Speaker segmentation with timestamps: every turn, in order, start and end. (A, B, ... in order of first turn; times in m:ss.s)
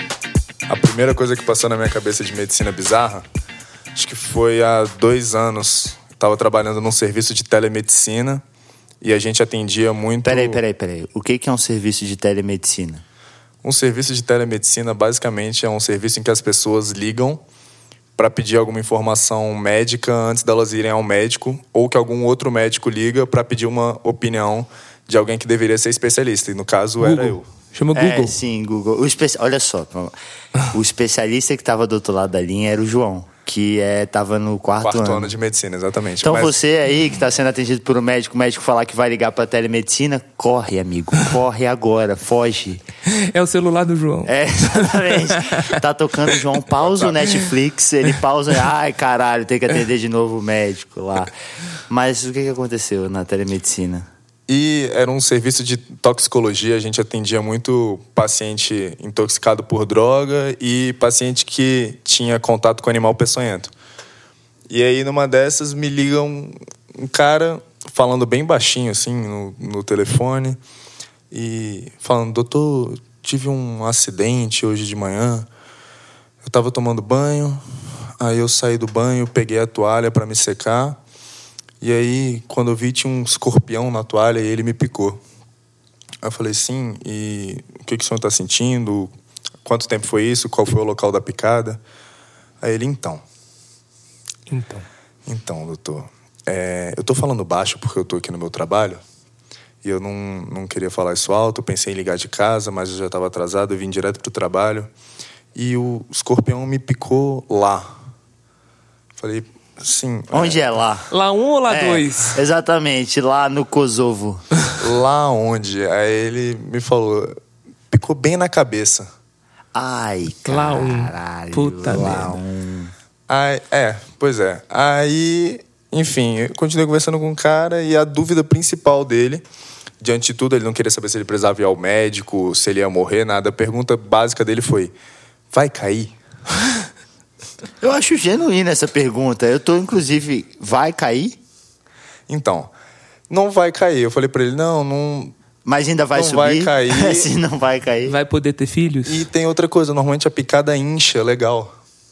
0:00.7-0:03.2 A
0:04.0-0:08.4 A
0:09.0-0:10.6 A
0:10.2-0:13.0 B
0:13.6-0:17.4 A
0:18.2-0:27.4 A
0:27.0-0:28.3 C
0:27.9-0:30.1 B
0:30.7-0:35.3 B
0:34.8-0:36.6 A
0:36.2-0:42.8 B
0:43.1-0:45.7 C
0:44.3-0:51.3 B
0:46.8-0:47.3 A
0:51.9-0:54.1 B
0:54.5-1:03.7 A
1:04.7-1:10.6 A
1:11.3-1:15.5 A
1:16.4-1:17.6 A
1:18.2-1:21.0 A
1:21.8-1:25.2 A
1:26.2-1:29.1 A
1:29.6-1:31.8 A
1:32.6-1:33.2 A
1:34.5-1:34.9 C
1:35.3-1:39.0 A
1:39.8-1:44.9 A
1:45.6-1:47.9 A
1:49.2-1:50.6 A
1:50.3-1:51.1 B
1:51.1-1:52.4 C
1:51.7-1:54.4 B
1:54.8-1:57.4 A
1:57.9-1:59.1 A
1:59.7-2:02.9 B
2:00.5-2:02.4 C
2:03.3-2:09.4 A
2:10.0-2:14.9 A
2:15.5-2:16.1 A
2:17.8-2:21.4 B
2:22.3-2:22.7 A
2:23.3-2:25.4 A
2:25.6-2:28.2 B
2:26.2-2:27.3 A
2:28.1-2:29.2 C
2:29.1-2:31.7 A